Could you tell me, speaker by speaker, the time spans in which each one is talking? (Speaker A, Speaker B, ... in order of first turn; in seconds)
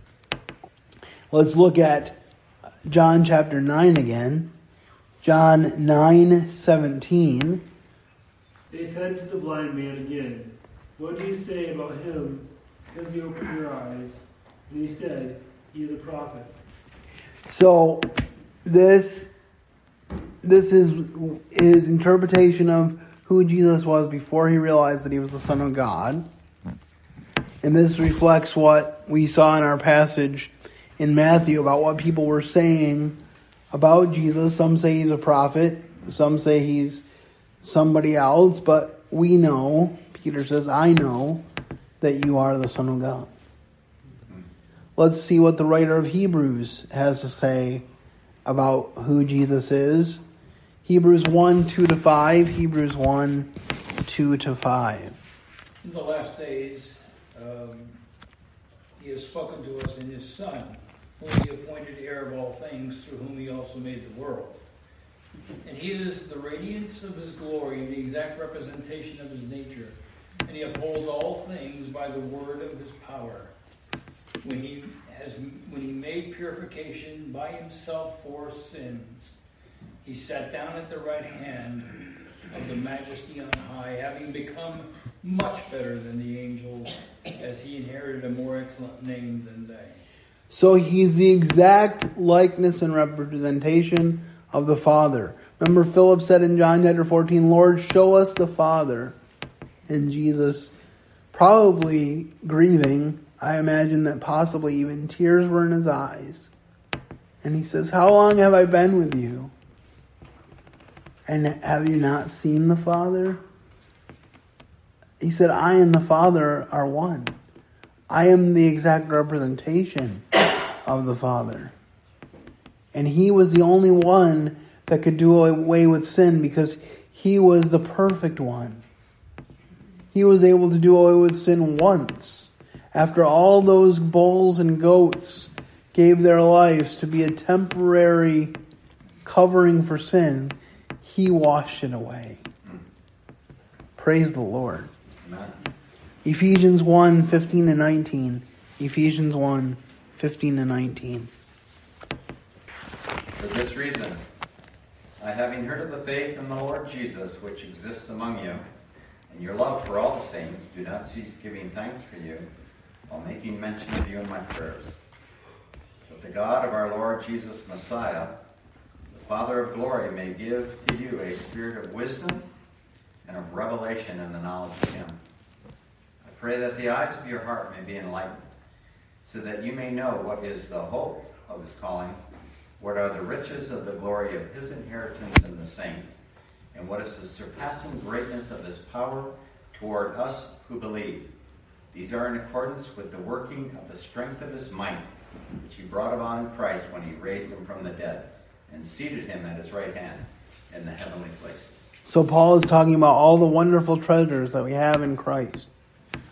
Speaker A: 1.3-2.2, 2.9-4.5, 5.2-7.6, 17.5-19.3, 20.4-26.2, 27.6-33.2, 33.7-37.0, 37.6-41.5, 42.0-43.3, 45.0-47.9, 48.5-50.2, 50.9-53.5, 54.0-55.2, 90.5-99.2, 99.9-100.7, 101.3-106.5, 107.4-109.5, 111.3-113.4, 115.2-117.3, 118.1-120.3, 120.8-121.7, 122.9-128.8, 130.1-138.6, 139.2-142.4, 144.0-144.9, 146.2-151.3, 202.0-205.7
Speaker B: 8.7-16.6
Speaker C: 55.8-58.0, 59.0-64.6, 65.6-73.5, 74.4-79.4, 80.0-81.9, 82.5-90.0
Speaker D: 145.2-145.6, 153.4-154.2, 155.2-158.7, 159.3-162.5, 163.1-165.0, 166.1-168.4, 169.1-172.5, 173.2-175.2, 176.2-178.4, 179.2-182.2, 182.8-186.2, 186.7-191.3, 191.9-195.1, 195.6-201.9